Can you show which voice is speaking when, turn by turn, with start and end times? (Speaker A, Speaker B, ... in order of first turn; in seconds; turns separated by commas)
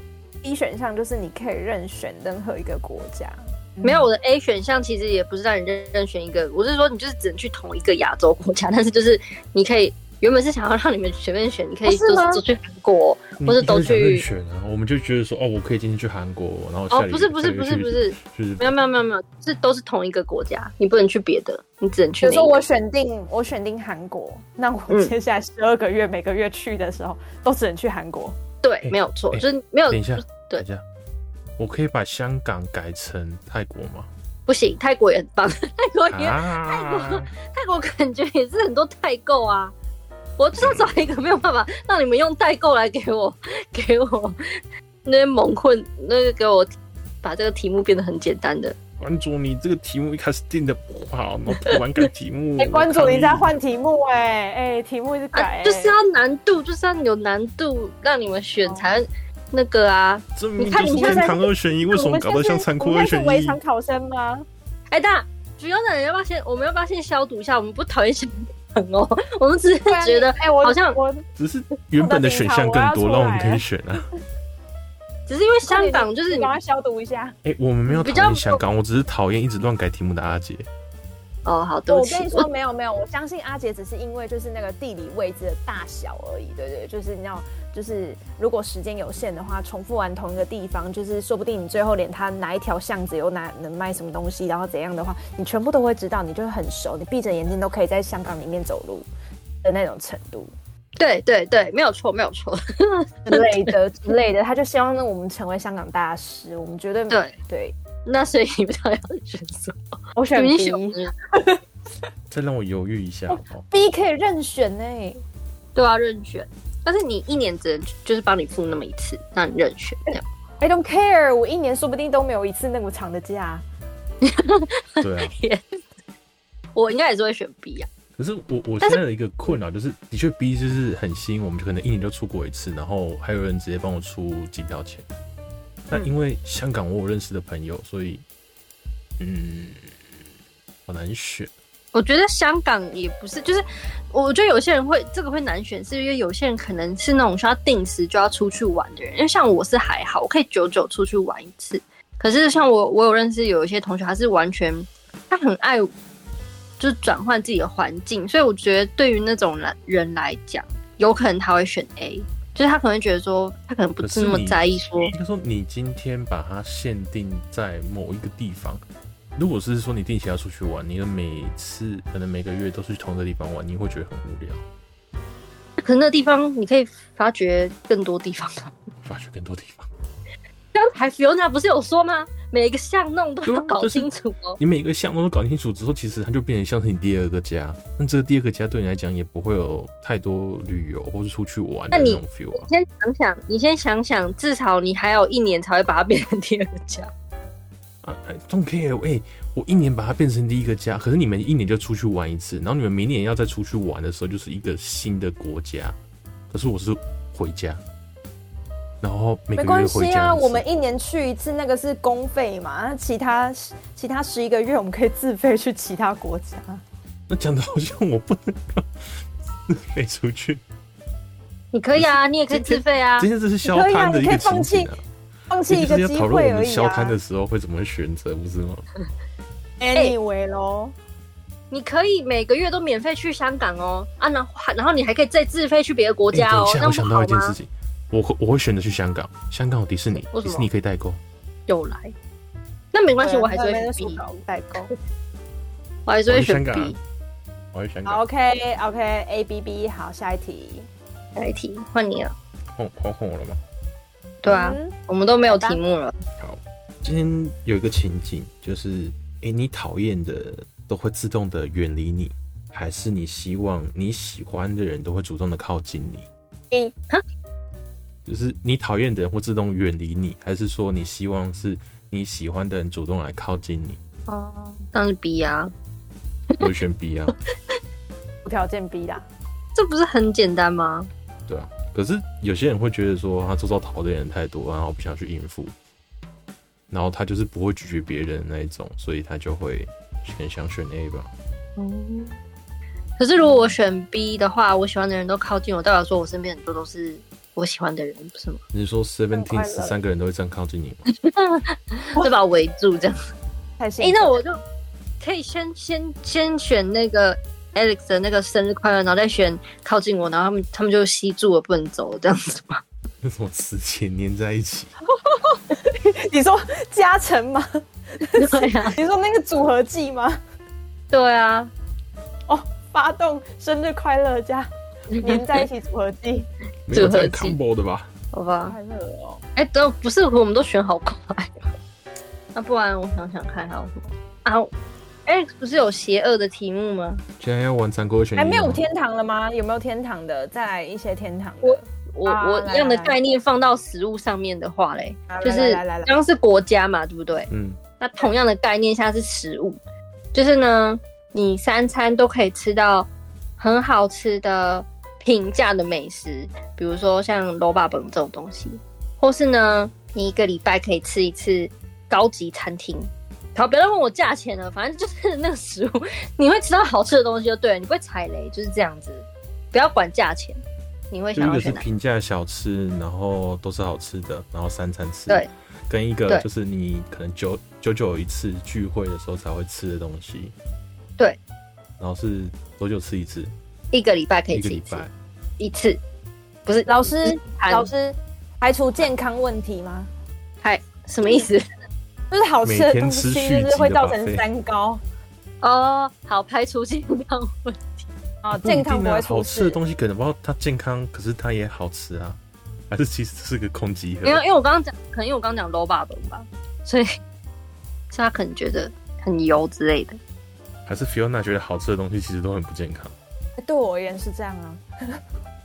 Speaker A: 0.4-4.1, Speaker B: 3.8-14.2, Speaker A: 11.8-12.4, Speaker C: 13.4-18.8, Speaker B: 16.9-22.6, Speaker A: 22.2-28.4, Speaker B: 28.6-30.6, Speaker C: 28.8-30.8, Speaker C: 31.6-34.1, Speaker B: 34.5-39.7, Speaker C: 36.1-37.3, Speaker B: 40.4-46.7, Speaker C: 40.6-41.0, Speaker B: 47.2-48.8, Speaker C: 49.0-53.5, Speaker B: 51.7-52.0, Speaker A: 52.6-56.0, Speaker B: 55.3-61.4, Speaker C: 60.4-63.6, Speaker A: 60.8-64.5, Speaker B: 64.9-71.0, Speaker A: 69.8-71.2, Speaker C: 71.4-74.1, Speaker A: 72.0-73.6, Speaker B: 75.3-76.5, Speaker A: 75.6-77.3, Speaker C: 77.4-80.7, Speaker B: 77.9-78.6, Speaker B: 81.4-82.5, Speaker A: 81.9-99.1, Speaker A: 99.6-100.5, Speaker B: 101.0-103.7, Speaker A: 103.2-107.8, Speaker B: 107.1-107.3, Speaker B: 108.0-109.8, Speaker A: 110.2-111.6, Speaker B: 110.3-111.1, Speaker C: 112.3-113.6, Speaker A: 113.3-115.2, Speaker B: 115.8-120.2, Speaker A: 120.6-123.6, Speaker B: 124.2-125.8, Speaker C: 125.0-125.3, Speaker B: 126.7-127.9, Speaker C: 128.2-135.1, Speaker C: 135.9-138.2, Speaker C: 139.2-139.9, Speaker C: 140.9-141.5, Speaker B: 141.9-155.9, Speaker B: 156.8-165.1, Speaker C: 164.0-168.8, Speaker C: 169.3-174.6, Speaker B: 175.8-178.7, Speaker C: 179.0-179.9, Speaker B: 180.7-184.6, Speaker C: 183.4-192.7, Speaker B: 191.9-197.1, Speaker C: 198.0-206.0, Speaker C: 206.5-207.8, Speaker C: 209.0-210.6, Speaker A: 209.6-216.8, Speaker C: 217.3-220.6, Speaker B: 221.7-223.3, Speaker C: 221.9-225.0, Speaker A: 223.6-224.9, Speaker A: 225.5-227.1, Speaker C: 225.7-228.8, Speaker A: 229.8-230.9, Speaker B: 231.7-237.5, Speaker C: 236.3-241.2, Speaker B: 240.3-240.7, Speaker B: 241.7-242.1, Speaker B: 242.9-244.2, Speaker A: 243.2-244.9, Speaker B: 246.1-247.0, Speaker C: 246.3-246.9, Speaker C: 247.7-248.2, Speaker A: 248.1-250.9, Speaker B: 251.3-252.3, Speaker C: 252.8-253.6, Speaker B: 254.4-256.2, Speaker A: 254.4-254.9, Speaker A: 255.5-255.8, Speaker C: 256.4-266.3, Speaker C: 268.2-274.0, Speaker B: 274.3-275.7, Speaker C: 276.6-277.3, Speaker A: 278.4-279.2, Speaker B: 279.7-281.1, Speaker C: 281.5-285.7, Speaker C: 286.9-291.3, Speaker B: 291.8-292.4, Speaker B: 293.2-298.6, Speaker C: 298.7-301.0, Speaker A: 299.3-300.0, Speaker B: 301.1-303.2, Speaker A: 303.8-304.4, Speaker B: 304.0-304.6, Speaker B: 305.2-312.8, Speaker C: 313.2-314.9, Speaker A: 315.2-320.4, Speaker B: 318.3-318.9, Speaker B: 321.1-321.7, Speaker A: 322.5-326.5, Speaker B: 325.1-325.6, Speaker C: 326.9-328.1, Speaker B: 326.9-327.6, Speaker B: 328.3-328.8, Speaker A: 328.6-329.4, Speaker B: 329.6-331.7, Speaker B: 332.5-334.7, Speaker B: 335.2-337.2, Speaker C: 337.4-338.8, Speaker A: 338.4-343.2, Speaker B: 341.6-347.5, Speaker A: 345.3-346.1, Speaker C: 347.5-347.8, Speaker B: 348.0-349.8, Speaker B: 350.3-371.8, Speaker C: 371.3-380.5, Speaker C: 382.0-383.5, Speaker B: 383.9-385.0, Speaker C: 384.5-385.1, Speaker B: 385.6-386.0, Speaker B: 386.6-387.9, Speaker A: 386.9-390.1, Speaker B: 390.6-391.6, Speaker A: 392.3-395.0, Speaker C: 392.6-394.4, Speaker B: 395.6-398.1, Speaker A: 398.4-399.8, Speaker C: 398.5-402.4, Speaker C: 402.9-404.4, Speaker B: 404.2-407.1, Speaker B: 408.1-410.2, Speaker C: 410.9-413.1, Speaker A: 413.6-415.2